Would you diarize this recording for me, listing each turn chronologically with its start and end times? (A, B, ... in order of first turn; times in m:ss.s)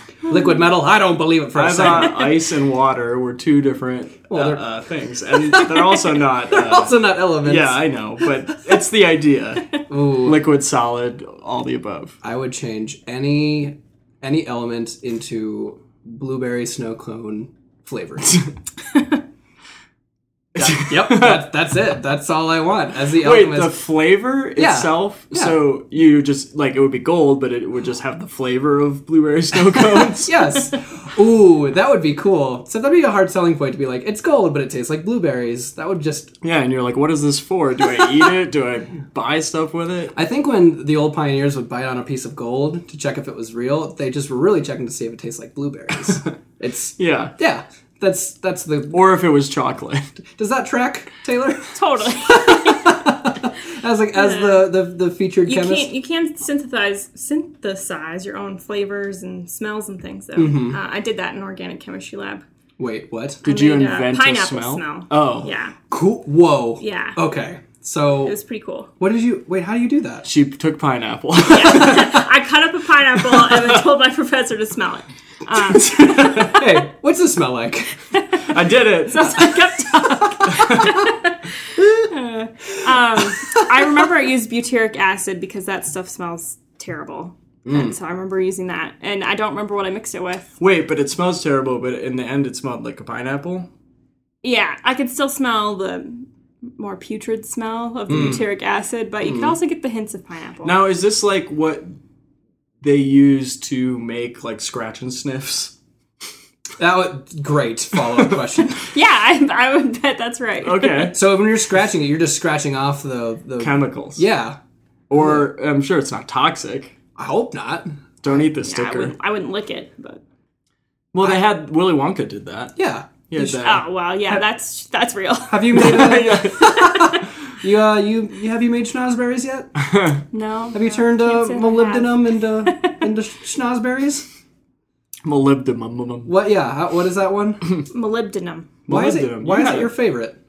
0:00.3-0:02.3 A
0:01.5-0:12.2 B
0:04.3-0:04.6 A
0:05.5-0:06.0 C
0:06.5-0:07.8 A
0:09.9-0:10.4 A
0:12.2-0:18.4 A
0:20.5-0:23.7 A
0:20.6-0:21.4 B
0:23.1-0:30.4 B
0:24.6-0:25.6 A
0:29.9-0:36.3 A
0:36.4-0:40.1 B
0:40.1-0:49.0 A
0:47.0-0:47.3 B
0:48.9-0:50.1 B
0:50.4-0:55.9 A
0:51.7-0:53.0 C
0:54.2-0:54.7 C
0:55.4-1:02.4 C
1:00.4-1:00.8 A
1:02.8-1:03.4 A
1:03.4-1:05.5 B
1:03.4-1:05.7 C
1:05.9-1:08.4 A
1:06.8-1:07.2 C
1:08.2-1:08.9 C
1:09.0-1:10.3 A
1:10.2-1:12.2 B
1:11.4-1:16.5 C
1:13.4-1:13.7 B
1:15.7-1:16.7 B
1:16.4-1:18.0 A
1:18.1-1:18.5 C
1:18.5-1:19.6 B
1:19.0-1:30.5 C
1:20.4-1:20.9 B
1:27.6-1:28.0 A
1:30.6-1:33.7 B
1:34.4-1:36.3 C
1:36.8-1:40.8 C
1:38.1-1:38.4 A
1:39.2-1:39.5 A
1:40.6-1:41.9 B
1:42.8-1:45.7 B
1:46.8-1:48.8 A
1:48.9-1:51.1 C
1:50.6-1:51.2 B
1:51.1-1:54.6 A
1:53.6-1:54.3 B
1:55.1-1:56.9 B
1:57.1-1:57.9 A
1:58.2-1:59.1 B
1:58.6-2:00.2 C
2:01.1-2:02.7 B
2:02.8-2:03.5 A
2:03.3-2:03.8 B
2:03.5-2:07.2 C
2:05.5-2:09.7 A
2:05.8-2:06.8 B
2:09.8-2:10.2 B
2:10.3-2:13.0 C
2:10.7-2:14.2 A
2:15.2-2:16.3 B
2:16.2-2:17.6 A
2:17.9-2:18.7 C
2:18.9-2:19.9 B
2:18.9-2:20.4 A